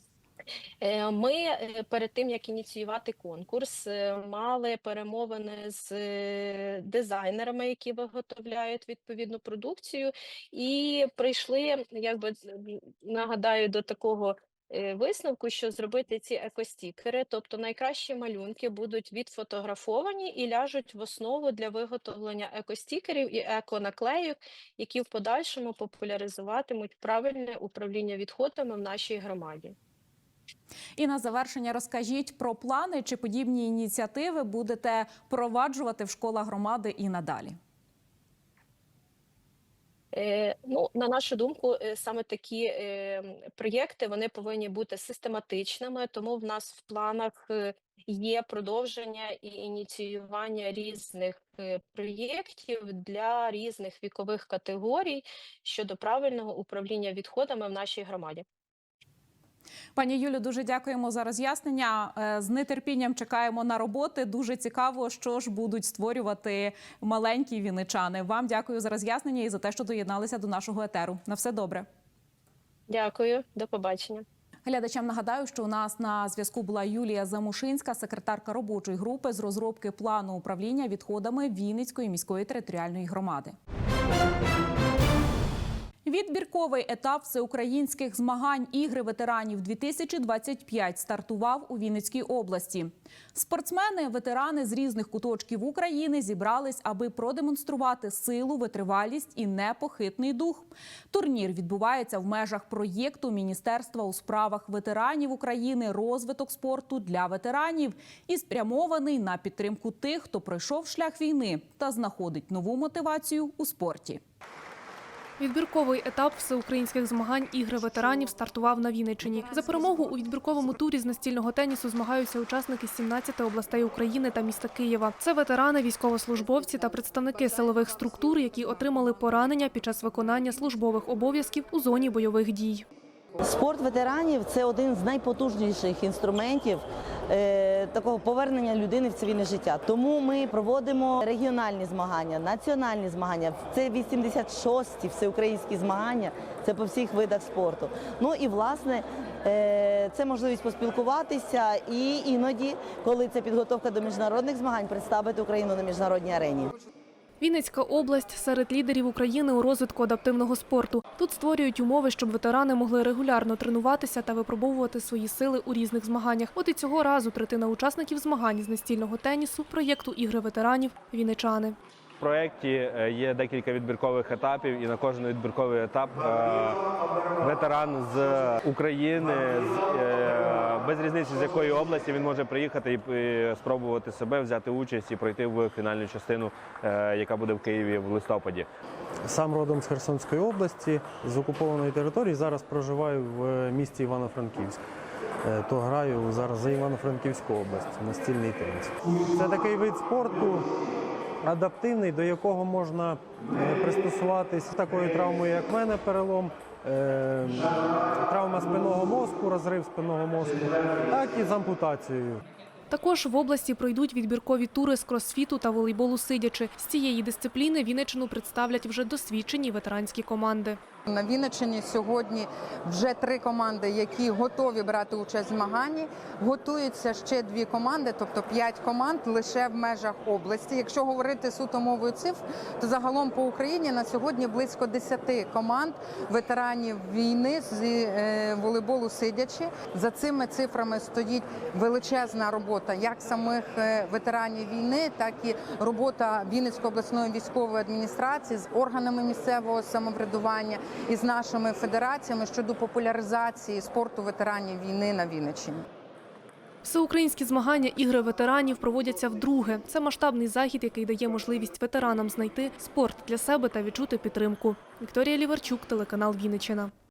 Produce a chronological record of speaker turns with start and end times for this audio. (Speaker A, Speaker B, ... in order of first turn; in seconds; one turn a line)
Speaker A: 0.8-29.8
Speaker B: 31.0-37.6
Speaker A: 40.1-58.5
Speaker B: 60.0-71.9
Speaker A: 72.9-74.2
Speaker B: 74.7-83.5
Speaker B: 86.1-114.2
Speaker C: 115.4-132.9
Speaker D: 133.4-156.7
Speaker C: 157.4-171.8
Speaker E: 172.2-188.7
Speaker F: 189.3-194.8
Speaker F: 195.4-200.7
Speaker F: 201.5-207.6
Speaker F: 208.3-212.4
Speaker C: 212.9-220.8
Speaker G: 221.1-255.8
Speaker C: 256.8-266.9